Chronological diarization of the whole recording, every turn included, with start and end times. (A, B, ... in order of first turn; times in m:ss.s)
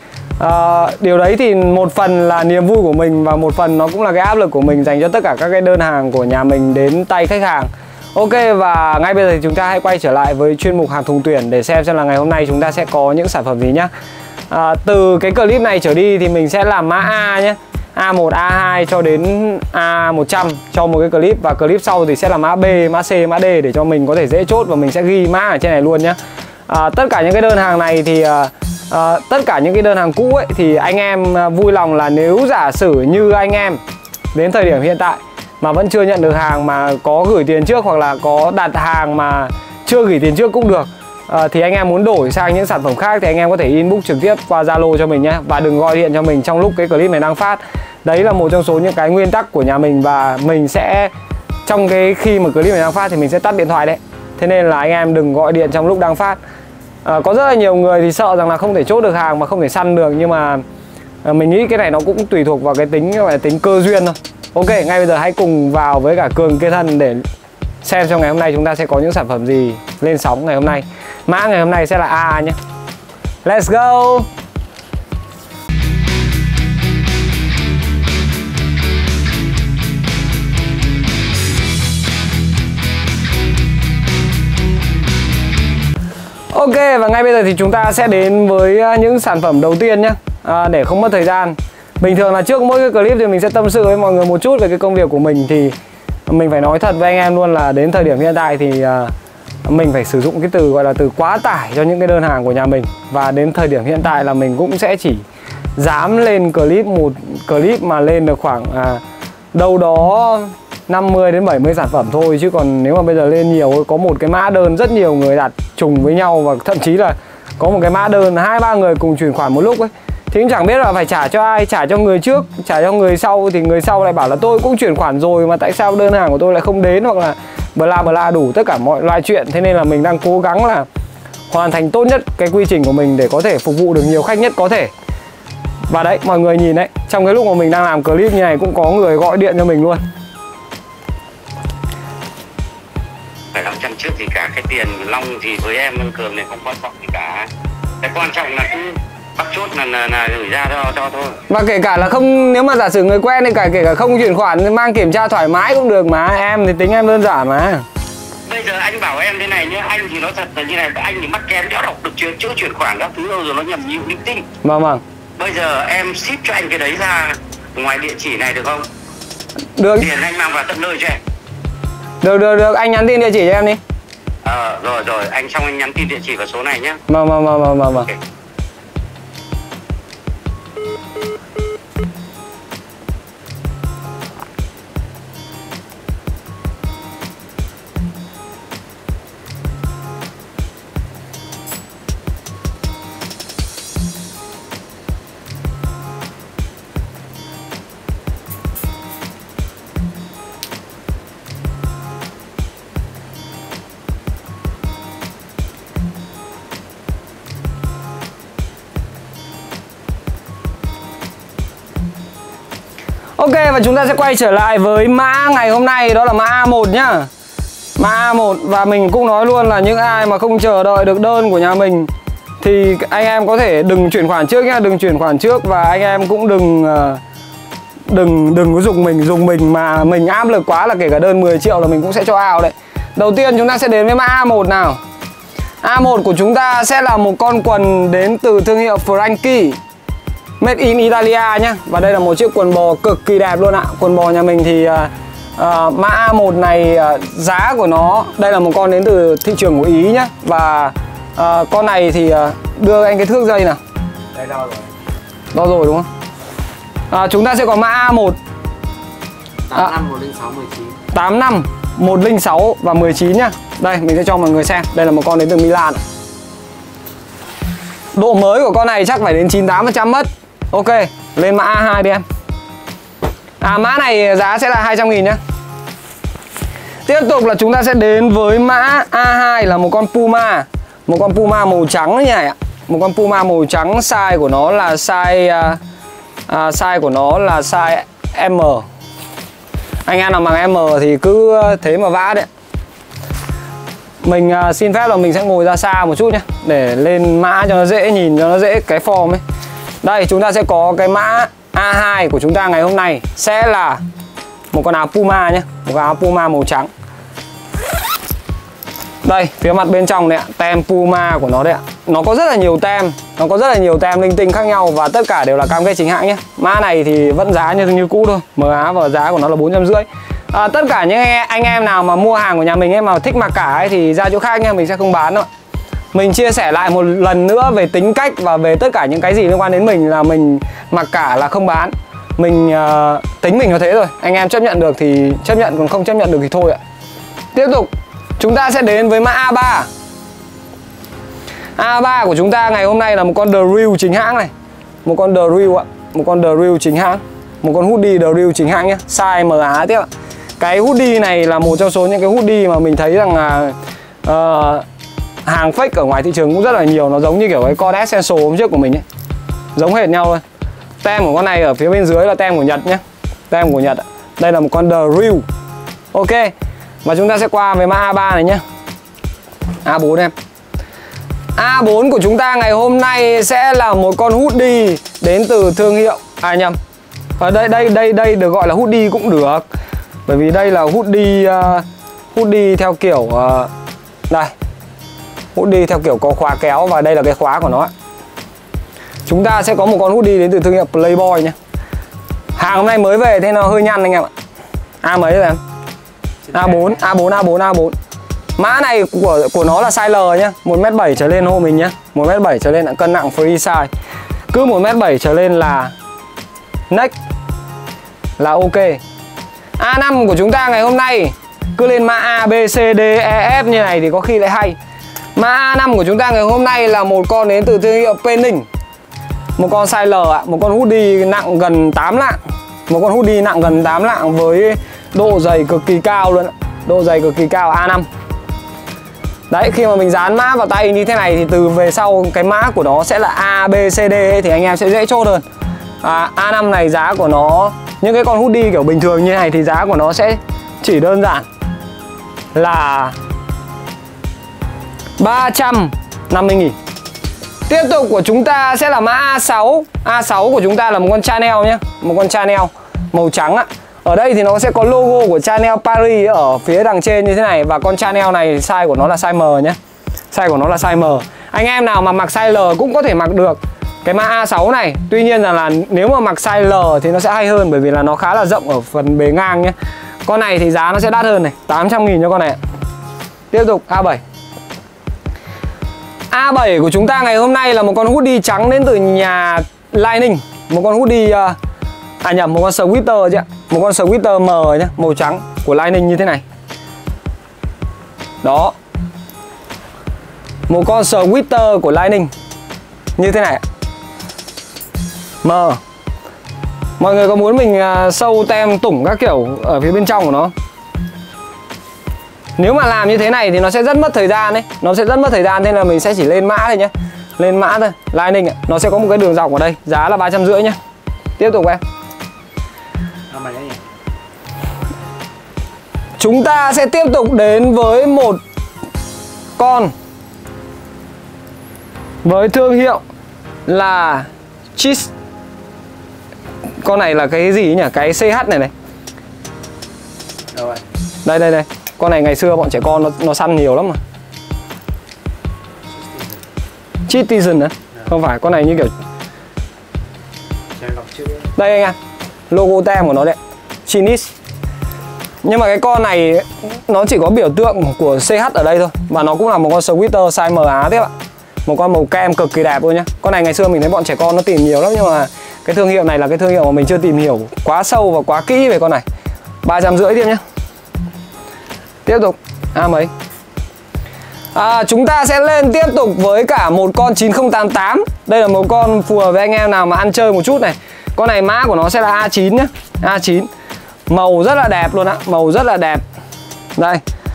0:00.4-0:13.9 A
0:14.5-0:26.2 A
0:26.7-0:33.8 A
0:34.3-0:51.1 A
0:51.6-0:56.4 A
0:57.0-1:00.6 A
1:01.2-1:07.2 A
1:07.8-1:12.6 A
1:13.4-1:14.3 A
1:26.5-1:35.7 A
1:36.3-1:39.1 A
1:39.6-1:45.2 A
1:45.8-1:49.0 A
1:49.5-2:10.8 A
2:11.5-2:14.9 A
2:15.9-2:20.0 A
2:23.5-2:27.5 B
2:28.0-2:31.4 B
2:31.5-2:37.8 A
2:38.4-2:44.5 B
2:44.6-2:45.0 A
2:45.4-2:48.9 B
2:49.8-2:50.1 A
2:50.0-2:51.2 B
2:52.2-2:53.8 A
2:54.4-2:57.0 B
2:57.1-2:58.1 A
3:33.4-3:37.3 A
3:38.0-3:42.1 A
3:42.6-3:47.2 A
3:48.1-3:55.0 A
3:55.8-3:59.8 A
4:00.6-4:13.8 A
4:14.3-4:14.9 C
4:15.5-4:16.1 A
4:17.1-4:18.4 A
4:19.7-4:21.0 C
4:21.1-4:26.0 A
4:28.1-4:32.2 A
4:33.6-4:35.4 A
4:37.0-4:45.8 A
4:46.5-4:48.8 A
4:50.0-4:52.5 A
4:54.2-4:59.4 A
5:00.0-5:04.0 A
5:04.7-5:06.9 A
5:09.2-5:25.5 A
5:26.1-5:36.8 A
5:37.5-5:39.9 A
5:41.8-5:44.5 A
5:45.0-5:50.1 A
5:50.6-5:54.8 A
5:55.4-5:59.0 A
5:59.8-6:00.4 A
6:01.0-6:05.4 A
6:06.1-6:06.5 A
6:07.0-6:08.6 A
6:09.8-6:10.3 A
6:11.6-6:16.8 A
6:17.4-6:19.6 A
6:20.3-6:23.7 A
6:25.5-6:27.9 A
6:29.3-6:31.5 A
6:32.6-6:34.3 A
6:35.0-6:35.6 A
6:36.5-6:37.9 A
6:38.6-6:43.9 A
6:44.5-6:45.9 A
6:48.4-6:49.0 A
6:49.8-6:54.8 A
6:55.4-6:58.6 A
6:59.6-7:08.1 A
7:09.5-7:15.4 A
7:16.0-7:21.4 A
7:22.5-7:23.1 A
7:25.2-7:26.8 A
7:27.7-7:39.8 A
7:40.3-7:49.7 A
7:50.2-7:52.6 A
7:53.5-7:54.2 A
7:56.3-8:01.6 A
8:02.2-8:06.4 A
8:08.4-8:08.7 A
8:10.7-8:12.3 A
8:13.2-8:13.6 A
8:15.4-8:15.8 A
8:17.0-8:20.5 A
8:22.6-8:30.8 A
8:31.4-8:31.8 A
8:33.3-8:33.8 C
8:36.2-8:38.4 A
8:39.6-8:39.9 A
8:42.2-8:43.0 A
8:43.7-8:45.1 A
8:46.8-8:48.7 A
8:50.5-8:50.8 C
8:51.2-8:54.0 A
8:57.1-8:58.9 A
9:00.8-9:01.5 C
9:01.6-9:02.0 A
9:02.5-9:04.3 A
9:05.4-9:11.1 A
9:11.6-9:19.0 A
9:19.6-9:20.4 A
9:22.0-9:23.1 A
9:24.5-9:33.5 A
9:34.1-9:36.0 A
9:36.8-9:37.0 A